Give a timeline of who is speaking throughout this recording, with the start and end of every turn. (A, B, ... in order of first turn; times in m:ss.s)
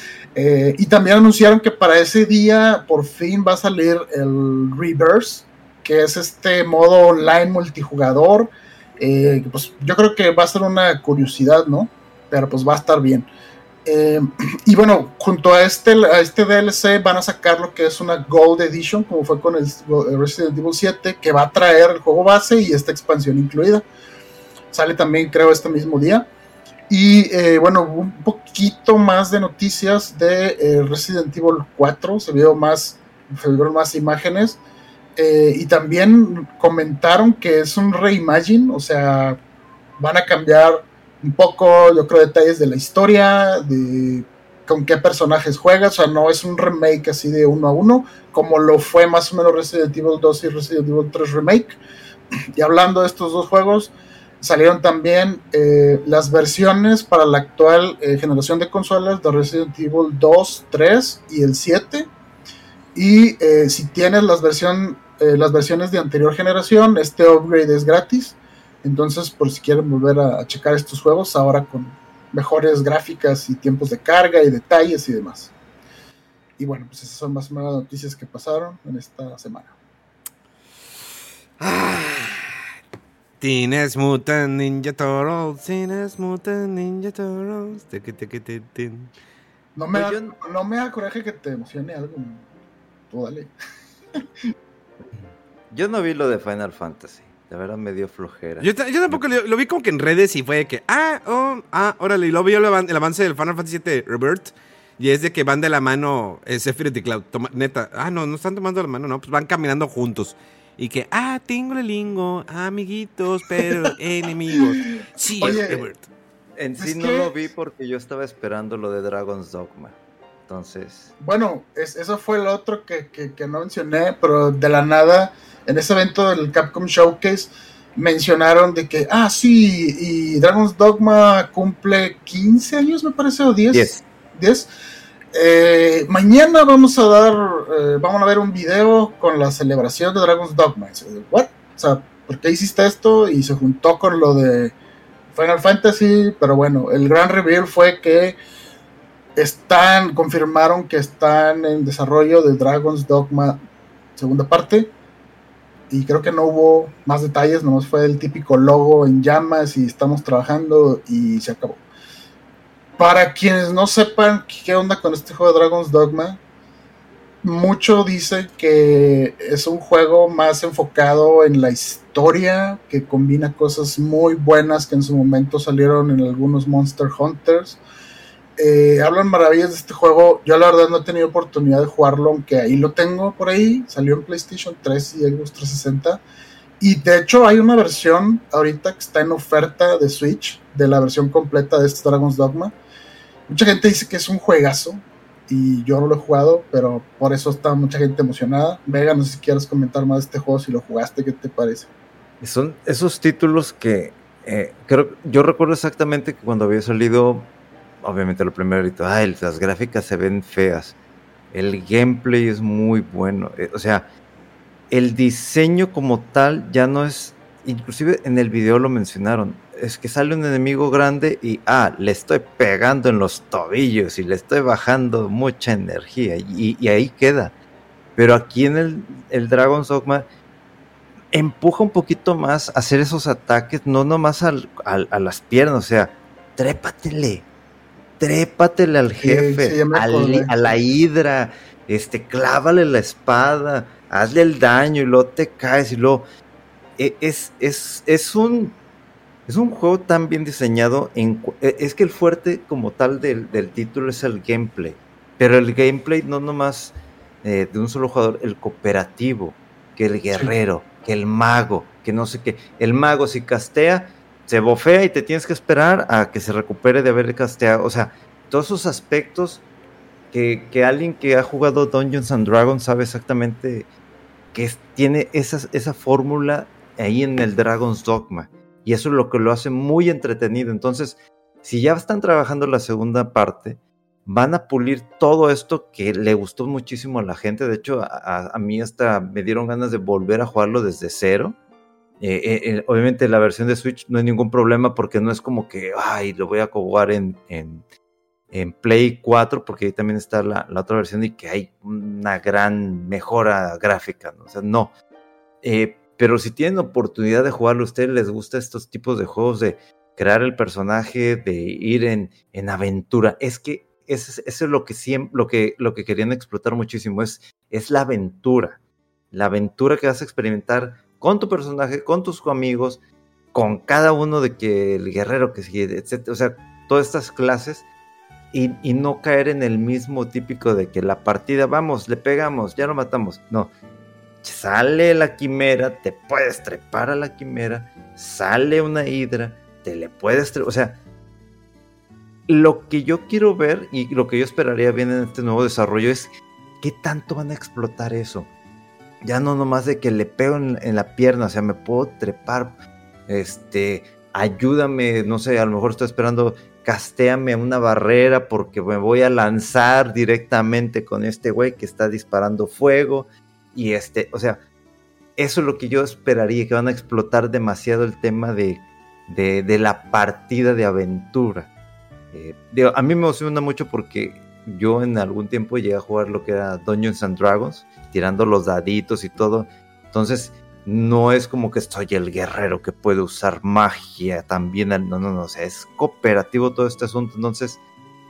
0:00.4-0:13.3 A
0:13.8-0:23.8 A
0:24.7-0:26.3 A
0:26.9-0:34.6 A
0:35.2-0:39.4 A
0:40.0-0:51.8 A
0:52.6-1:02.1 A
1:02.9-1:15.5 A
1:16.6-1:19.7 A
1:21.6-1:22.5 B
1:23.4-1:29.1 B
1:29.8-1:32.5 A
1:29.9-1:30.4 C
1:33.1-1:33.5 A
1:35.1-1:39.2 C
1:38.6-1:56.1 B
1:55.4-1:55.8 A
1:56.6-2:00.0 C
1:56.8-1:57.4 A
2:00.5-2:01.1 C
2:01.2-2:14.7 A
2:13.7-2:14.0 C
2:15.3-2:24.7 A
2:25.3-2:28.4 A
2:29.4-2:33.6 A
2:34.2-2:34.9 A
2:35.9-2:41.8 A
2:43.0-2:46.4 A
2:47.4-2:57.8 A
2:58.6-3:06.2 A
3:06.8-3:12.7 A
3:13.5-3:21.9 A
3:22.4-3:31.0 C
3:31.5-3:34.1 C
3:34.9-3:47.5 C
3:48.2-3:50.3 C
3:51.3-3:57.5 C
3:58.2-4:06.2 C
3:59.2-4:00.8 A
4:07.0-4:08.8 C
4:09.4-4:29.6 C
4:30.3-4:33.9 C
4:34.5-4:51.6 C
4:52.2-4:57.8 C
4:58.5-5:04.9 C
5:05.6-5:18.8 C
5:19.3-5:23.0 C
5:23.5-5:27.8 C
5:28.5-5:33.7 C
5:34.4-5:41.0 C
5:42.5-5:48.5 C
5:49.2-6:04.6 C
6:05.4-6:11.7 C
6:12.3-6:27.8 C